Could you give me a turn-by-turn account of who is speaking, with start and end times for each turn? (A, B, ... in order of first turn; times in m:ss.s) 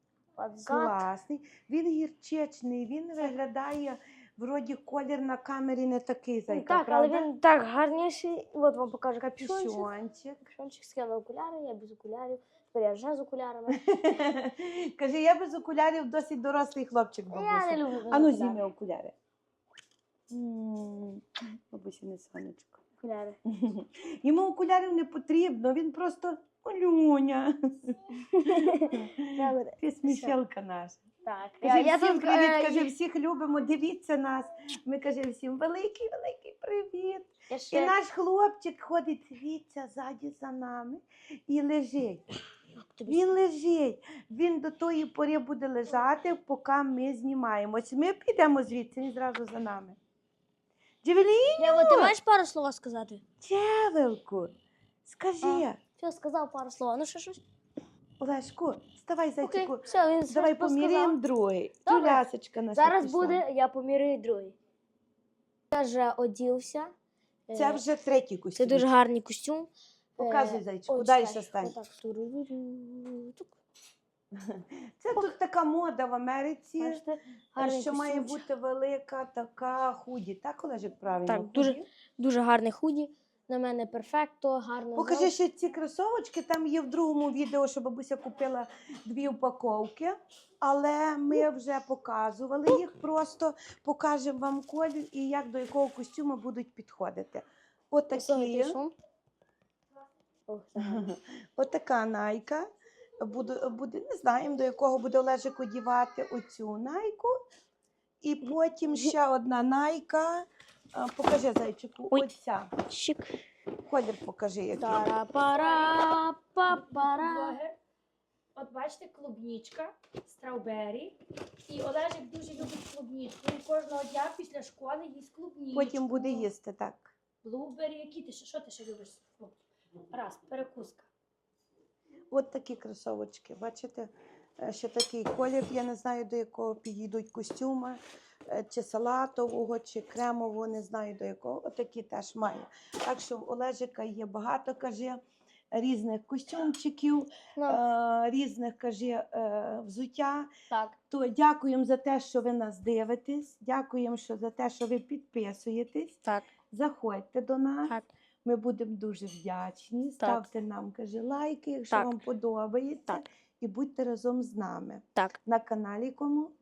0:00.4-0:01.1 A
0:00.7-0:07.3 B
0:06.5-0:09.9 A
0:09.2-0:10.5 B
0:10.5-0:13.8 A
0:13.7-0:19.1 B
0:17.3-0:18.6 A
0:20.3-0:22.8 B
0:23.0-0:23.4 A
0:23.5-0:31.0 B
0:28.3-0:30.4 A
0:31.2-0:32.9 A
0:31.6-0:42.2 B
0:37.5-0:38.0 A
0:42.8-0:43.3 A
0:43.1-0:50.0 B
0:51.0-0:52.2 B
0:51.6-0:53.2 A
0:53.4-0:54.5 B
0:55.0-0:55.8 B
0:55.4-0:57.4 A
0:58.2-1:03.4 B
0:59.4-1:01.2 A
1:01.9-1:04.6 A
1:05.7-1:06.9 A
1:07.5-1:07.8 A
1:07.5-1:08.9 B
1:08.6-1:13.6 A
1:10.2-1:11.8 B
1:14.4-1:17.0 B
1:16.8-1:18.4 A
1:17.6-1:21.9 B
1:21.3-1:25.3 A
1:25.0-1:38.8 B
1:38.1-1:38.9 A
1:40.5-1:41.1 A
1:40.8-1:42.7 B
1:43.2-1:47.3 B
1:48.2-1:52.7 B
1:52.9-1:53.4 A
1:53.8-1:55.1 B
1:54.8-1:57.6 A
1:55.5-1:56.0 C
1:56.7-1:57.8 C
1:58.6-2:06.4 C
2:05.7-2:07.1 B
2:07.4-2:09.6 C
2:10.1-2:11.1 C
2:12.3-2:25.2 B
2:25.7-2:30.5 B
2:30.7-2:31.0 A
2:31.1-2:36.2 B
2:36.7-2:46.5 B
2:40.2-2:40.5 A
2:41.9-2:42.2 A